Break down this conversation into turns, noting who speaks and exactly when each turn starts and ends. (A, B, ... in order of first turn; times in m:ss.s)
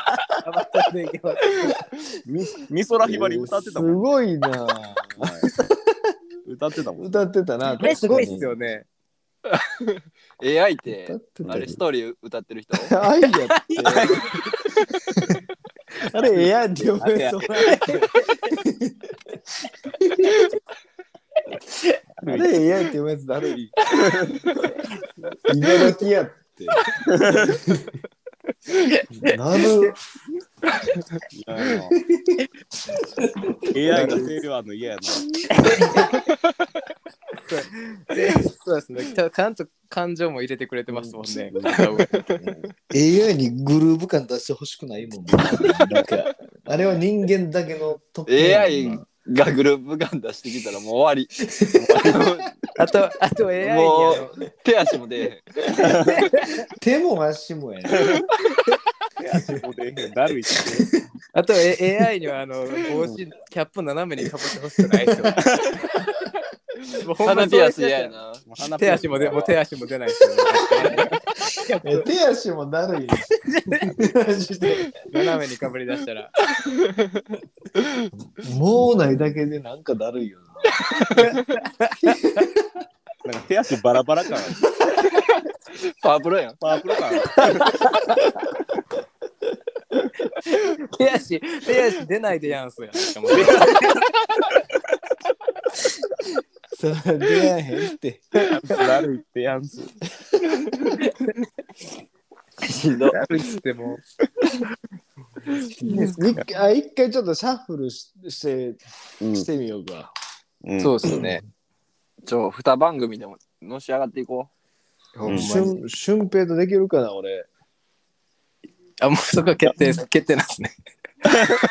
0:00.4-0:01.8 A
0:02.3-0:04.0 B
0:03.0-0:06.1 C
0:05.2-0:05.5 B
0:06.4-0:07.1 B
0:07.0-0:08.4 C
0:07.8-0:08.9 A
0:08.1-0:08.5 B
0:09.5-0:13.0 D
0:11.0-0:11.8 C
0:11.4-0:11.7 B
0:12.8-0:14.3 C
0:13.5-0:14.0 A
0:13.8-0:14.3 B
0:16.0-0:19.1 C
0:16.2-0:18.0 B
0:17.8-0:18.2 A
0:19.9-0:20.3 C
0:22.2-0:22.5 B
0:22.2-0:23.9 C
0:23.9-0:24.5 B
0:25.4-0:26.9 C
0:27.0-0:27.6 B
0:29.1-0:30.0 C
0:31.3-0:32.0 B
0:31.9-0:32.4 C
0:33.2-0:34.2 C
0:33.7-0:35.9 B
0:33.9-0:34.3 A
0:35.5-0:36.1 A
0:35.8-0:36.1 C
0:37.5-0:42.1 A
0:40.9-0:41.5 C
0:41.5-0:41.9 B
0:42.1-0:42.4 D
0:42.8-0:49.1 C
0:48.3-0:51.4 D
0:51.5-0:52.3 C
0:51.8-0:52.5 B
0:52.0-0:52.4 D
0:52.8-0:54.3 A
0:53.6-0:55.5 D
0:55.8-0:56.3 B
0:56.1-0:56.6 A
0:56.7-0:58.2 C
0:58.0-0:58.2 B
0:59.2-1:00.9 B
1:01.3-1:05.4 A
1:05.4-1:05.8 B
1:07.0-1:08.2 A
1:07.2-1:08.4 D
1:08.5-1:09.6 B
1:08.8-1:12.0 A
1:10.8-1:11.1 B
1:11.8-1:15.0 C
1:13.5-1:14.0 A
1:15.1-1:16.3 A
1:16.6-1:17.2 D
1:18.3-1:20.8 C
1:21.2-1:22.5 A
1:22.0-1:22.7 C
1:23.2-1:24.6 B
1:25.1-1:26.6 D
1:26.6-1:27.8 B
1:27.6-1:28.3 A
1:30.4-1:34.0 A
1:33.3-1:34.1 B
1:36.7-1:38.3 C
1:38.4-1:40.0 B
1:41.0-1:41.4 A
1:42.6-1:43.2 D
1:43.1-1:44.0 A
1:45.8-1:46.2 A
1:45.8-1:50.1 C
1:49.2-1:49.5 B
1:50.6-1:51.2 B
1:50.8-1:51.4 A
1:52.2-1:54.5 D
1:55.2-1:55.7 A
1:55.2-1:57.5 C
1:55.3-1:55.6 B
1:59.0-2:00.7 A